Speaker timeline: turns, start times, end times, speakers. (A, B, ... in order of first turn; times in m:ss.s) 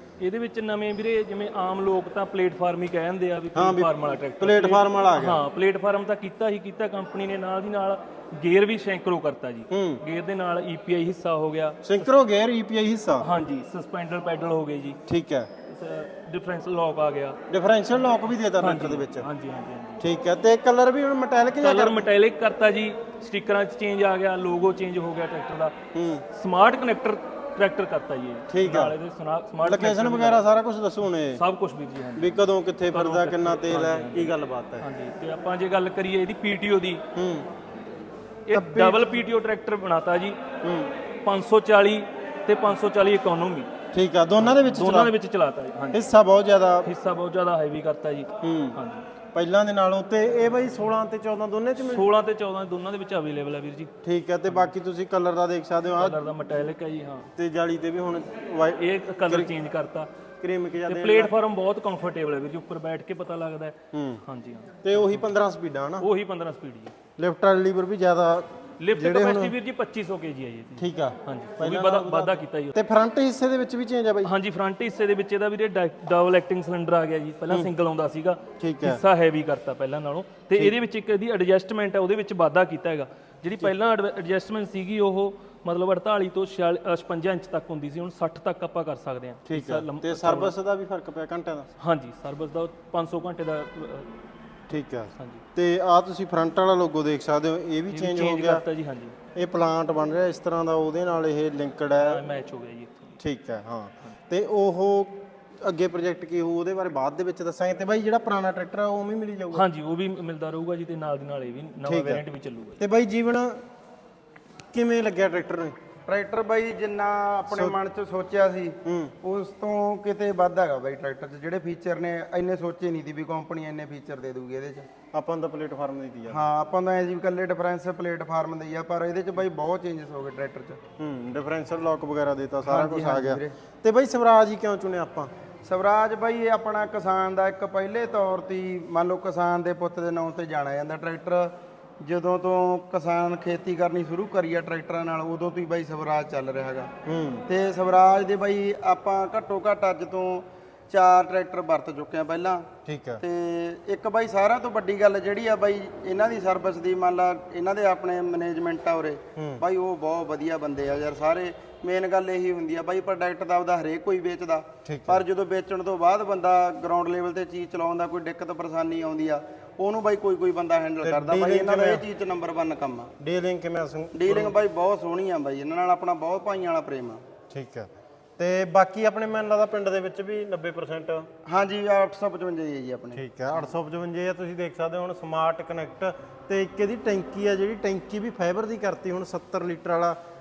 0:00.2-0:12.1 A
0:03.5-0:05.4 B
0:09.7-0:10.0 B
0:11.8-0:13.3 B
0:13.2-0:15.0 A
0:15.1-0:15.5 B
0:15.7-0:17.4 A
0:17.5-0:19.3 B
0:18.6-0:20.0 A
0:20.0-0:22.1 B
0:21.6-0:25.8 A
0:25.9-0:26.2 B
0:26.3-0:30.4 A
0:28.5-0:28.9 B
0:29.6-0:31.4 B
0:31.3-0:37.0 A
0:32.2-0:34.8 B
0:37.1-0:37.5 B
0:38.5-0:40.4 A
0:38.5-0:39.1 B
0:40.6-0:40.9 B
0:41.2-0:43.7 A
0:43.9-0:45.1 B
0:44.4-0:46.0 A
0:45.9-0:46.9 B
0:46.8-0:49.0 A
0:48.4-0:48.8 B
0:49.3-0:52.1 B
0:51.8-0:53.9 A
0:54.0-0:56.2 B
0:56.0-0:57.3 A
0:57.3-0:59.5 B
0:58.8-1:00.1 A
1:00.4-1:01.3 B
1:00.9-1:05.3 A
1:03.9-1:04.2 B
1:04.8-1:06.1 B
1:06.0-1:06.9 A
1:07.2-1:09.5 B
1:08.8-1:12.7 A
1:10.8-1:14.3 B
1:14.2-1:30.5 A
1:18.6-1:19.0 B
1:29.4-1:31.7 B
1:31.8-1:34.1 A
1:34.7-1:38.6 B
1:35.1-1:35.4 A
1:37.9-1:39.2 A
1:39.3-1:42.2 B
1:41.9-1:43.2 A
1:43.2-1:49.7 B
1:49.5-1:52.8 A
1:51.8-1:52.2 B
1:52.8-1:53.6 B
1:54.7-1:55.8 B
1:56.1-2:04.9 C
1:57.5-1:57.7 B
1:58.8-1:59.1 B
2:05.1-2:06.4 B
2:06.3-2:10.8 C
2:11.0-2:15.3 B
2:12.6-2:13.6 C
2:15.6-2:26.9 C
2:27.0-2:27.4 B
2:27.5-2:32.7 C
2:32.8-2:33.2 B
2:33.2-2:53.1 C
2:39.4-2:39.6 B
2:44.8-2:45.2 B
2:51.0-2:52.0 B
2:53.2-2:54.5 B
2:54.1-2:57.2 C
2:57.5-3:01.3 B
3:01.4-3:03.2 C
3:03.1-3:10.2 B